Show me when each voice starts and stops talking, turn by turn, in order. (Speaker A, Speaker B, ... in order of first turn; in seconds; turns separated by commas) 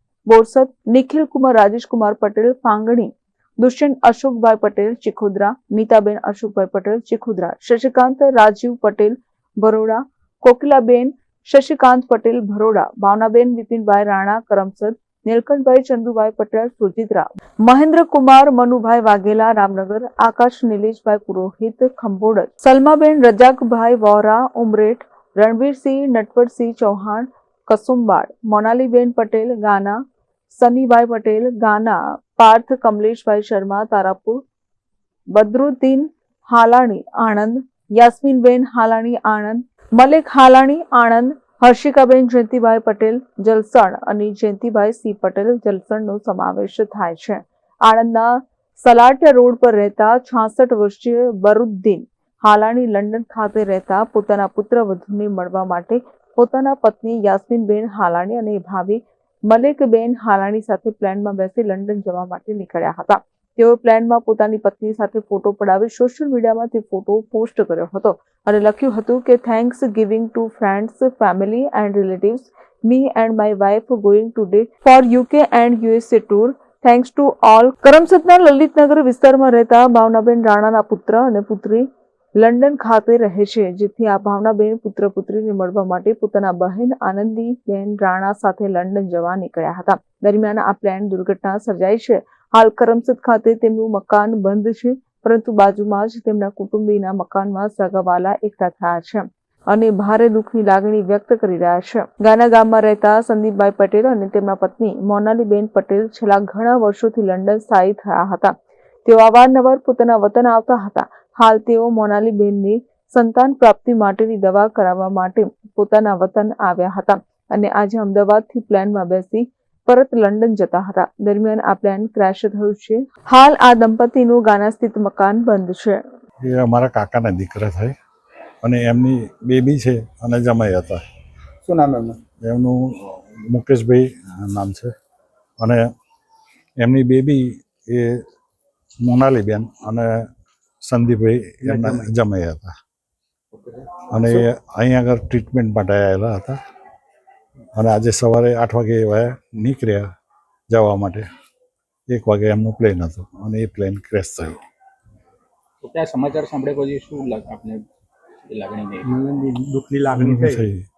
Speaker A: 0.3-30.0, Speaker A: 30.5-34.4, Speaker A: 35.3-108.5, Speaker A: 109.0-126.0, Speaker B: 126.4-127.9, Speaker B: 128.6-131.0, Speaker C: 131.6-132.2, Speaker B: 132.4-134.9, Speaker B: 135.6-135.9, Speaker B: 136.8-138.2, Speaker B: 139.0-140.2, Speaker B: 140.8-142.7, Speaker C: 141.6-142.1, Speaker C: 143.5-144.4, Speaker B: 144.1-146.6, Speaker B: 147.8-150.1, Speaker B: 150.7-151.3, Speaker B: 152.1-154.6, Speaker D: 155.8-157.8, Speaker D: 158.5-159.1, Speaker C: 159.0-160.7, Speaker B: 160.1-160.8